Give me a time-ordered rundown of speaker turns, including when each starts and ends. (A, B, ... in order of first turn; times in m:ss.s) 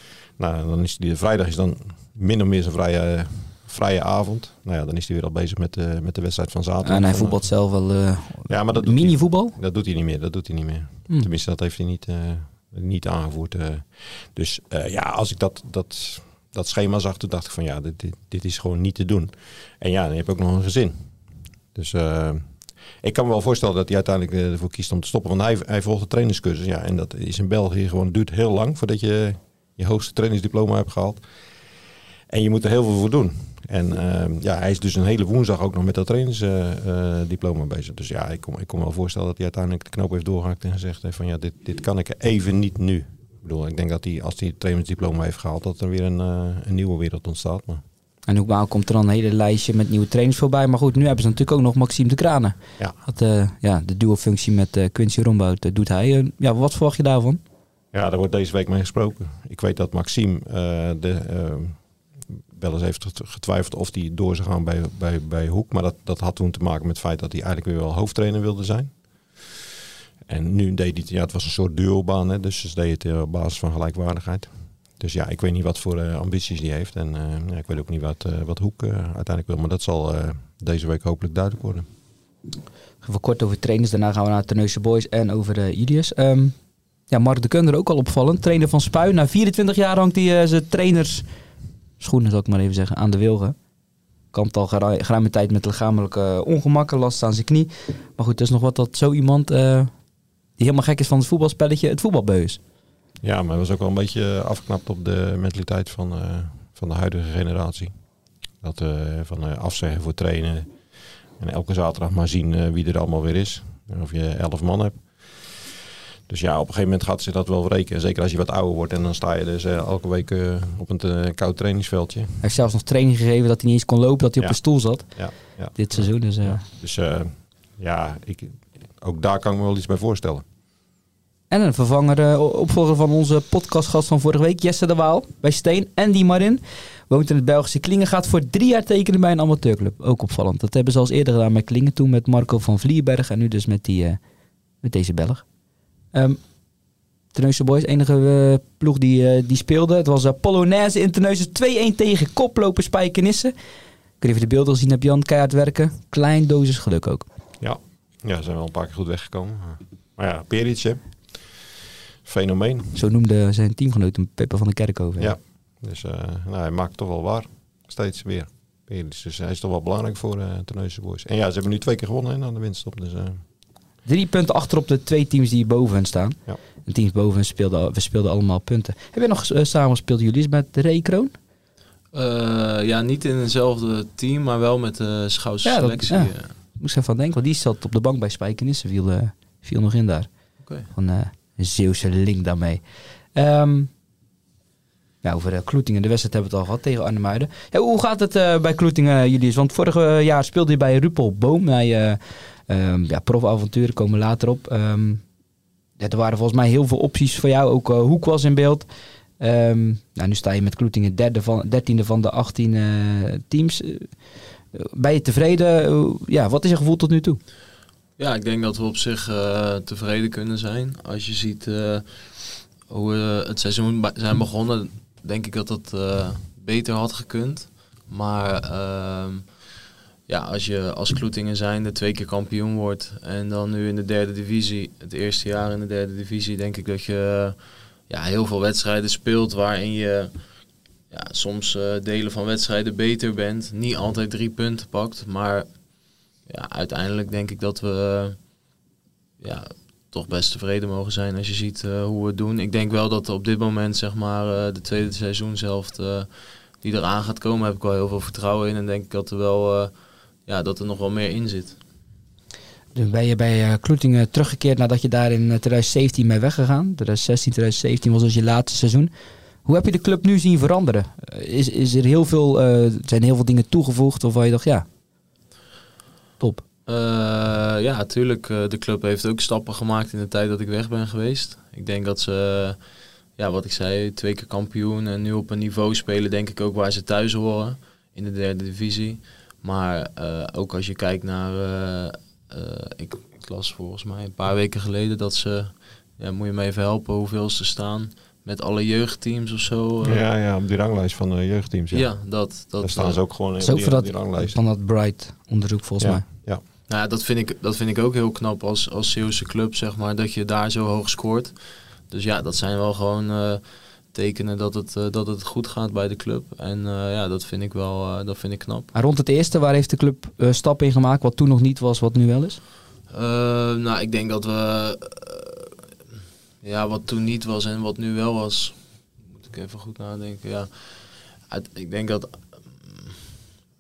0:00.4-0:07.5 A
0:06.8-0:09.6 B
0:08.5-0:21.1 A
0:21.7-0:31.2 A
0:32.3-0:47.8 A
0:48.3-0:57.4 B
0:57.9-1:01.8 A
1:02.5-1:09.5 A
1:10.3-1:21.9 A
1:23.0-1:26.6 B
1:27.1-1:31.3 B
1:32.0-1:33.6 B
1:34.3-1:39.9 B
1:40.6-1:42.6 B
1:43.2-1:47.9 A
1:48.6-1:50.7 A
1:51.4-1:55.6 A
1:56.3-2:02.4 A
2:02.4-2:06.6 B
2:04.4-2:10.4 A
2:11.5-2:24.2 B
2:24.8-2:25.5 B
2:26.1-2:26.4 B
2:27.3-2:33.5 B
2:34.2-2:37.3 B
2:37.6-2:41.6 A
2:42.2-2:43.0 A
2:42.9-2:45.4 B
2:45.2-2:53.4 A
2:54.0-3:01.3 B
3:02.1-3:06.5 C
3:05.6-3:13.9 B
3:15.2-3:25.2 B
3:26.0-3:28.9 B
3:29.4-3:37.4 B
3:38.2-3:49.6 C
3:50.3-4:00.5 C
4:01.1-4:08.4 C
4:09.4-4:19.9 C
4:20.5-4:21.8 C
4:23.0-4:29.1 B
4:29.6-4:34.9 B
4:36.9-5:00.3 C
5:00.0-5:04.6 A
5:01.9-5:03.3 C
5:03.6-5:06.2 B
5:06.0-5:06.6 A
5:06.9-5:18.9 C
5:18.9-5:22.6 B
5:23.1-5:25.7 C
5:26.6-5:33.2 C